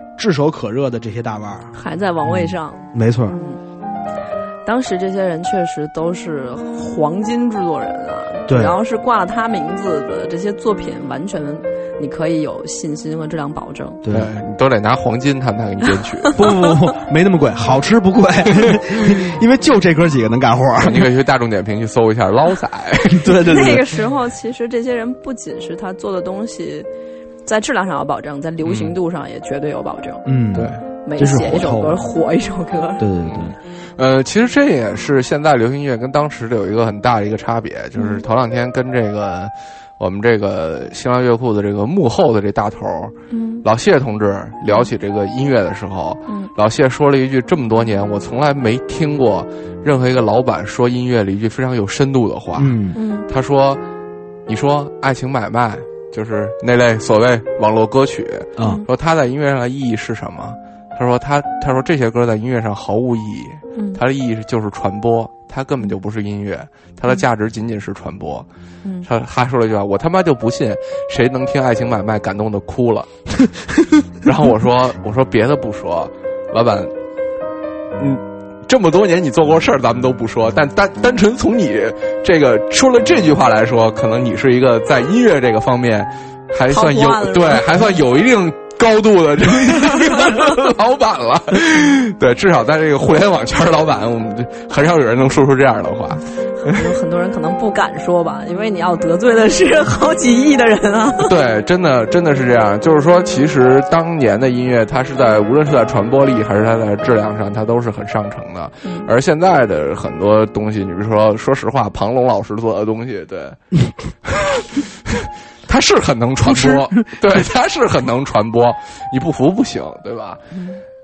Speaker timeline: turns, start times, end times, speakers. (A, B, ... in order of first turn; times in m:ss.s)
0:00.2-0:01.7 A
0:01.7-0:03.6 B
0:02.3-0:03.4 A
0:04.6-0:14.0 B
0:08.5-0:08.7 A
0:14.0-0:14.3 A
0:14.1-0:16.4 C
0:16.3-0:21.1 A
0:20.8-0:23.3 C
0:23.1-0:23.8 A
0:23.4-0:26.9 B
0:27.4-0:30.2 B
0:28.6-0:28.9 C
0:30.2-0:32.0 A
0:30.5-0:30.8 C
0:31.0-0:33.0 B
0:33.0-0:33.6 A
0:33.2-0:53.8 C
0:38.0-0:38.2 B
0:43.3-0:43.6 B
0:52.6-0:53.0 A
0:53.0-0:53.2 B
0:54.5-1:08.5 C
0:58.6-0:58.8 A
1:09.0-1:13.1 C
1:14.2-1:16.9 C
1:18.0-1:36.8 C
1:26.7-1:28.0 B
1:36.6-1:41.3 B
1:41.2-1:53.6 C
1:48.8-1:49.1 B
1:54.2-2:00.4 C
1:56.4-1:57.4 A
2:00.5-2:00.8 B